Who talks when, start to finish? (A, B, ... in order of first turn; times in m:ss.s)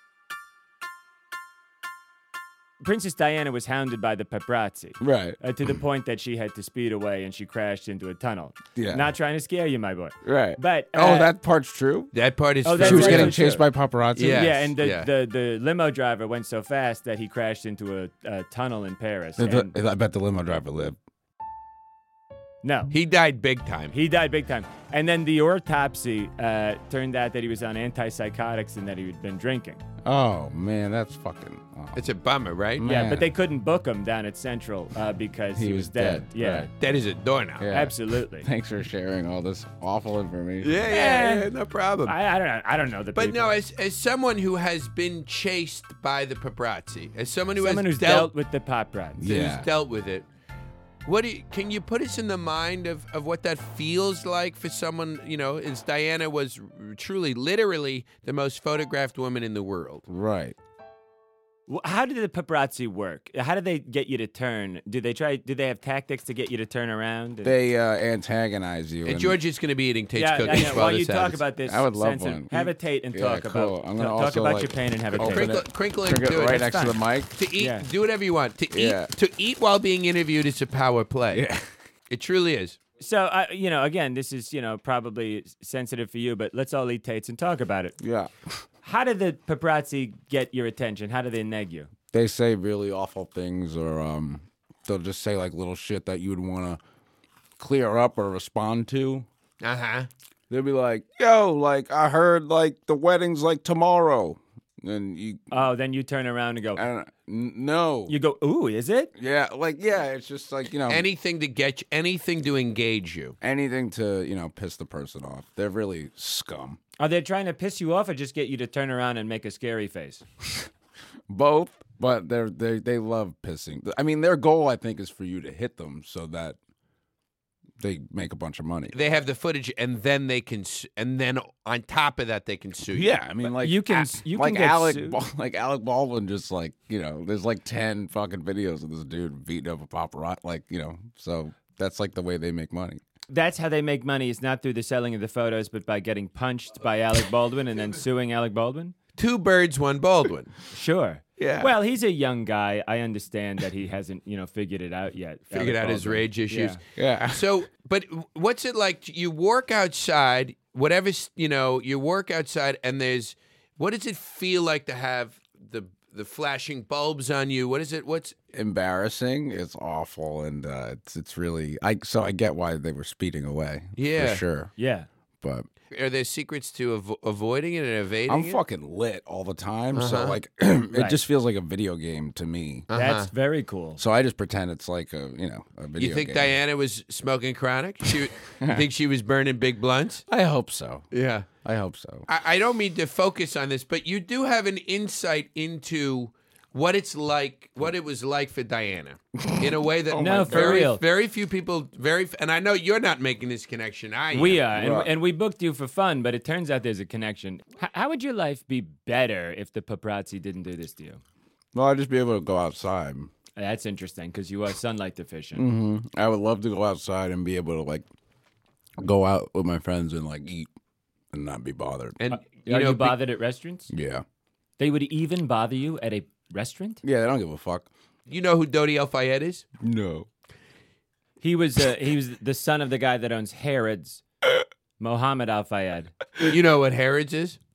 0:02.8-0:11.3 A
0:05.0-0:05.4 B
0:08.8-0:09.1 B
0:10.2-0:12.1 B
0:12.1-0:13.4 C
0:12.6-0:19.7 A
0:12.8-0:14.7 B
0:14.2-0:15.1 C
0:19.4-0:21.0 B
0:22.6-0:22.9 A
0:22.9-0:23.9 C
0:23.9-0:29.8 A
0:30.0-0:32.1 B
0:31.9-0:32.8 C
0:32.8-0:33.3 B
0:32.8-0:36.7 A
0:35.6-0:36.7 B
0:36.8-0:37.6 C
0:37.6-0:40.9 B
0:37.7-0:38.5 A
0:40.6-0:42.2 C
0:40.9-0:41.5 A
0:42.1-0:43.5 A
0:43.1-0:48.3 C
0:47.6-0:49.2 A
0:49.2-0:49.7 B
0:49.2-0:50.2 C
0:51.0-1:00.0 C
1:00.1-1:00.6 B
1:01.7-1:07.5 A
1:07.4-1:09.4 B
1:09.0-1:11.4 C
1:10.2-1:15.6 A
1:11.7-1:17.3 B
1:15.2-1:21.4 C
1:16.5-1:16.9 A
1:17.6-1:17.8 A
1:18.7-1:19.1 B
1:21.3-1:21.7 B
1:22.1-1:22.8 C
1:23.0-1:28.0 A
1:28.0-1:28.3 B
1:28.8-1:31.9 A
1:32.1-1:36.8 B
1:37.6-1:39.3 B
1:39.6-1:40.1 C
1:40.5-1:45.5 B
1:45.5-1:46.8 A
1:46.8-1:48.2 B
1:48.1-1:49.1 A
1:49.2-1:51.0 B
1:50.9-1:53.3 C
1:53.4-1:56.8 B
1:57.0-2:00.2 A
2:01.3-2:06.6 B
2:07.8-2:08.9 B
2:08.9-2:13.2 C
2:12.9-2:23.0 B
2:13.6-2:15.2 A
2:23.3-2:29.0 A
2:29.2-2:30.5 C
2:30.7-2:36.8 A
2:31.4-2:31.7 B
2:35.5-2:48.4 C
2:37.0-2:37.4 B
2:48.5-2:54.7 B
2:54.0-2:54.4 C
2:54.8-2:55.1 A
2:55.4-2:55.7 B
2:55.9-2:58.6 C
2:58.3-3:02.9 B
2:59.9-3:00.4 C
3:00.9-3:01.2 A
3:02.9-3:03.3 C
3:02.9-3:04.0 A
3:04.0-3:06.6 B
3:06.0-3:10.2 C
3:08.6-3:08.8 B
3:10.3-3:11.0 B
3:11.1-3:11.5 C
3:11.6-3:12.2 B
3:12.3-3:24.7 C
3:19.4-3:20.9 B
3:20.2-3:21.0 A
3:24.3-3:31.2 A
3:24.8-3:25.1 B
3:31.7-3:33.3 B
3:33.6-3:35.6 A
3:35.5-3:38.0 B
3:39.0-3:40.7 B
3:41.3-3:42.2 B
3:42.2-3:43.2 C
3:42.3-3:43.9 A
3:43.9-3:44.2 B
3:44.8-3:47.0 A
3:47.0-3:47.9 B
3:48.2-3:49.6 C
3:49.8-3:50.3 B
3:51.4-3:54.2 A
3:55.0-3:56.1 A
3:56.4-3:57.6 C